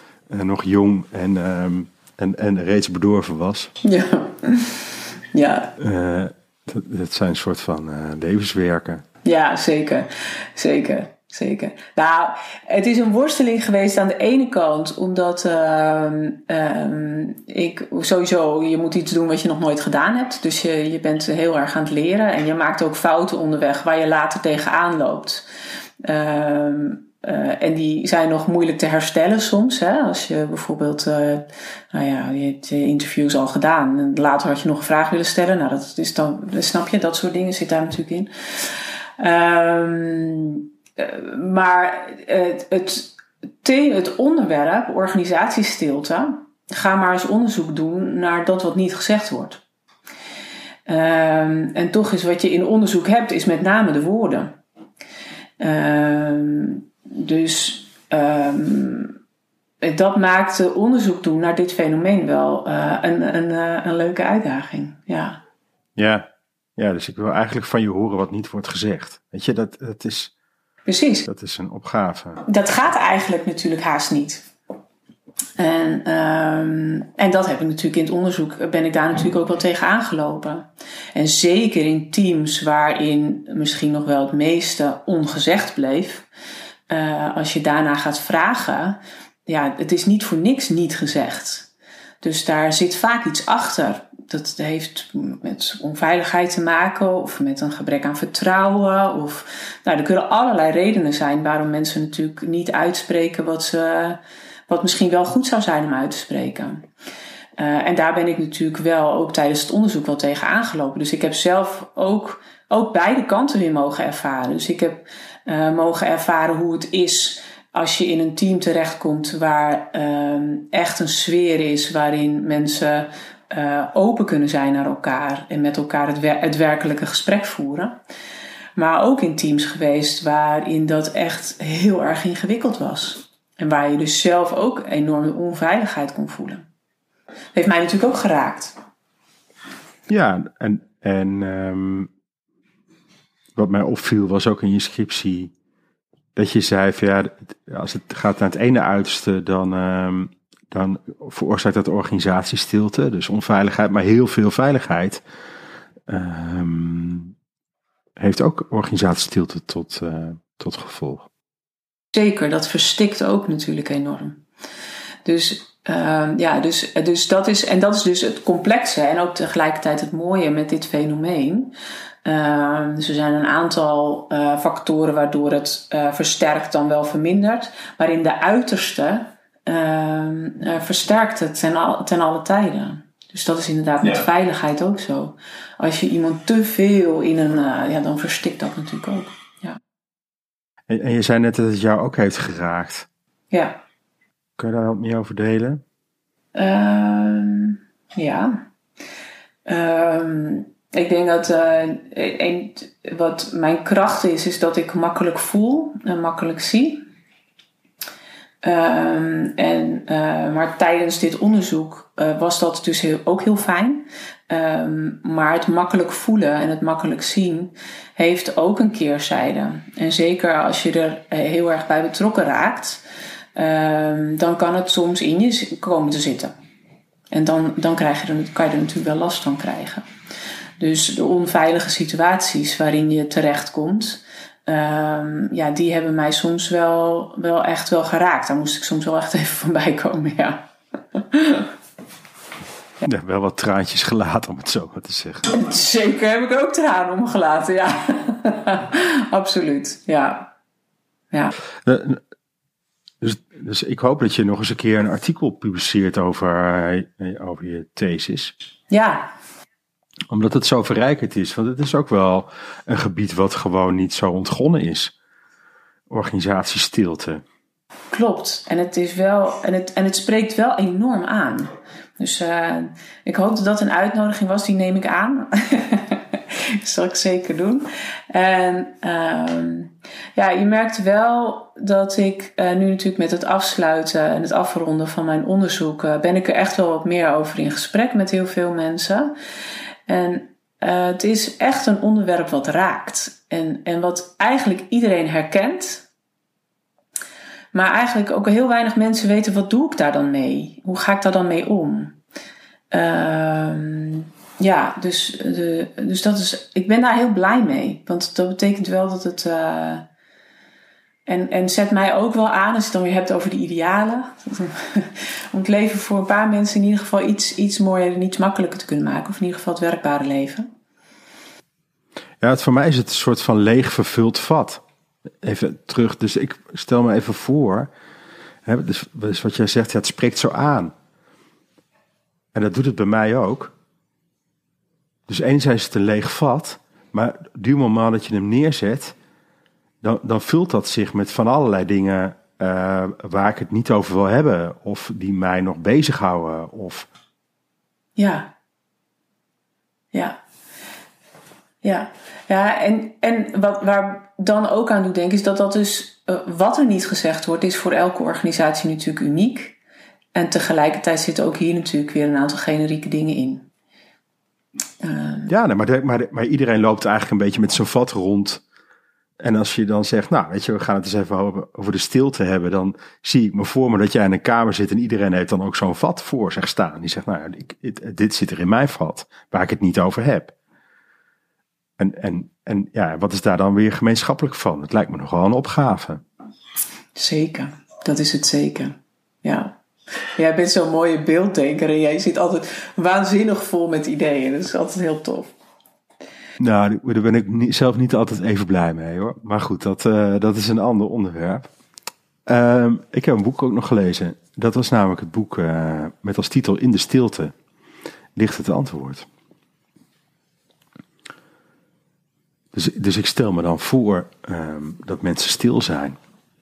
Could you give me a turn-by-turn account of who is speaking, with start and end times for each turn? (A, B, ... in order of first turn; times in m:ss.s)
0:00.3-0:03.7 A
0:03.8-0:05.7 B
0:05.8-0:09.0 A
0:09.2-0:25.5 B
0:26.0-0:49.6 B
0:50.9-0:54.6 B
0:55.6-0:59.2 B
0:59.8-1:05.4 B
1:06.0-1:10.3 A
1:10.9-1:11.2 B
1:11.2-1:12.4 A
1:12.5-1:14.5 B
1:15.6-1:26.3 B
1:26.9-1:31.7 B
1:32.2-1:46.9 B
1:47.6-2:08.0 B
2:08.8-2:16.7 B
2:17.5-2:18.8 B
2:20.1-2:22.1 A
2:23.6-2:25.5 A
2:26.4-2:35.2 A
2:36.1-2:37.3 A
2:38.2-2:41.3 A
2:42.1-2:44.4 B
2:45.2-2:51.7 B
2:52.2-3:09.8 B
3:10.9-3:13.1 A
3:13.5-3:13.8 B
3:14.6-3:15.8 A
3:16.6-3:18.7 B
3:19.7-3:27.0 B
3:28.6-3:43.0 B
3:43.6-3:46.5 B
3:47.3-3:50.1 B
3:50.8-4:01.7 B
4:03.0-4:05.5 A
4:05.5-4:10.5 B
4:11.8-4:12.2 A
4:13.2-4:18.5 A
4:18.9-4:19.3 B
4:20.3-4:25.1 A
4:26.1-4:27.4 A
4:28.1-4:49.3 B
4:50.1-4:56.1 B
4:57.7-5:02.2 B
5:02.9-5:10.1 B
5:11.3-5:20.7 B
5:22.4-5:24.8 A
5:25.4-5:27.9 A
5:28.7-5:30.9 A
5:32.5-5:33.7 A
5:35.3-5:39.2 A
5:40.0-5:47.1 A
5:48.2-5:48.5 B
5:50.1-5:50.4 B
5:51.8-5:59.8 B
6:00.3-6:03.7 B
6:05.0-6:05.5 B
6:05.5-6:08.6 A
6:09.4-6:20.5 A
6:22.0-6:26.2 A
6:27.2-6:29.8 B
6:30.4-6:35.5 B
6:36.6-6:41.7 A
6:42.5-6:47.5 A
6:48.4-6:49.3 A
6:52.7-6:56.2 A